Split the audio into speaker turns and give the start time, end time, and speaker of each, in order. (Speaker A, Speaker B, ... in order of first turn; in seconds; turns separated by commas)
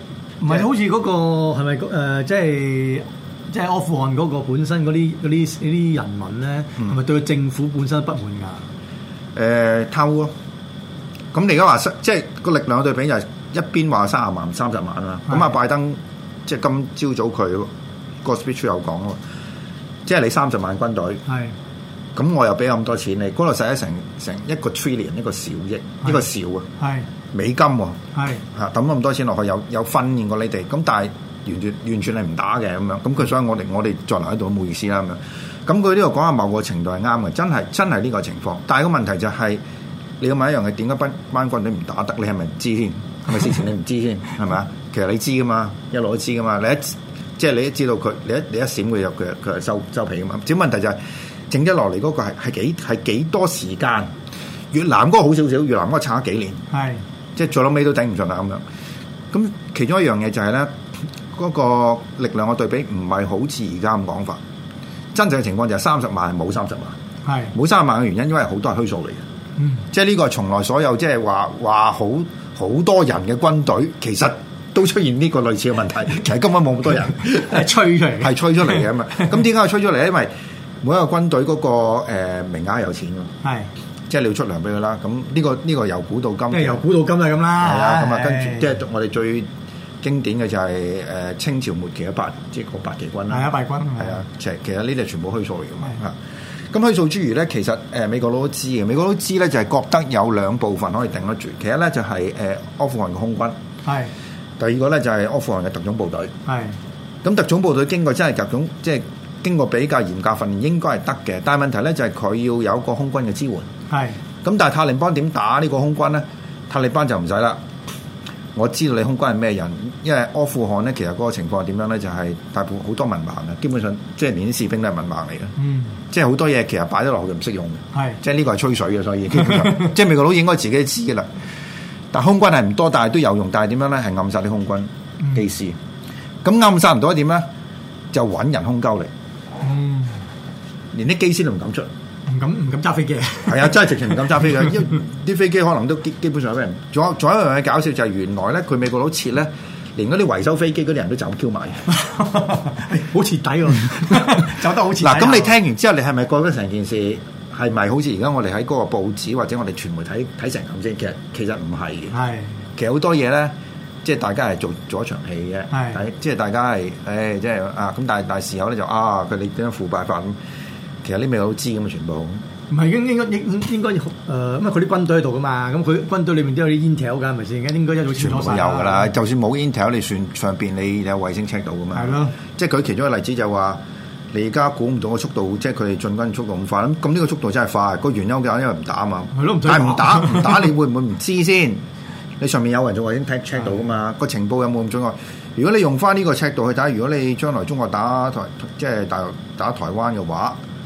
Speaker A: 0.4-8.6, Speaker B: 9.3-10.3, Speaker B: 11.3-17.7, Speaker A: 15.3-15.5, Speaker B: 18.2-19.2, Speaker B: 20.1-21.2, Speaker A: 21.3-21.5, Speaker B: 22.1-26.7, Speaker A: 26.8-27.1, Speaker B: 27.3-39.6, Speaker A: 28.1-28.4, Speaker B: 40.2-54.1, Speaker B: 54.7-56.6, Speaker A: 56.7-57.0, Speaker B: 57.4-58.6, Speaker B: 59.3-60.7, Speaker B: 61.3-64.4, Speaker B: 65.1-67.0, Speaker A: 67.2-67.5, Speaker B: 67.5-69.2, Speaker A: 69.6-69.8, Speaker B: 69.9-80.3, Speaker A: 77.2-79.4, Speaker B: 80.8-83.3, Speaker A: 83.4-83.7, Speaker B: 84.1-86.8, Speaker A: 86.5-88.8, Speaker B: 87.6-89.5, Speaker B: 90.0-96.2, Speaker A: 93.3-94.2, Speaker B: 96.7-103.6, Speaker A: 103.8-104.1, Speaker B: 104.6-106.3, Speaker A: 106.5-106.8, Speaker B: 107.2-113.7, Speaker A: 113.9-114.2, Speaker B: 114.4-117.6, Speaker B: 118.5-125.5, Speaker A: 125.6-126.0, Speaker B: 126.1-131.3, Speaker A: 127.9-128.2, Speaker A: 129.4-129.9, Speaker B: 132.1-135.8, Speaker B: 136.4-137.4, Speaker B: 138.1-139.1, Speaker A: 139.6-140.2, Speaker B: 140.9-141.9, Speaker A: 142.3-144.8, Speaker B: 143.4-151.9, Speaker A: 151.9-155.6, Speaker B: 154.1-162.2, Speaker A: 162.1-162.6, Speaker B: 162.8-170.4, Speaker A: 165.7-166.0, Speaker B: 171.0-172.4, Speaker A: 172.7-179.1, Speaker B: 178.2-183.8, Speaker A: 181.9-182.3, Speaker B: 184.3-191.8, Speaker A: 189.3-190.7, Speaker B: 192.4-200.6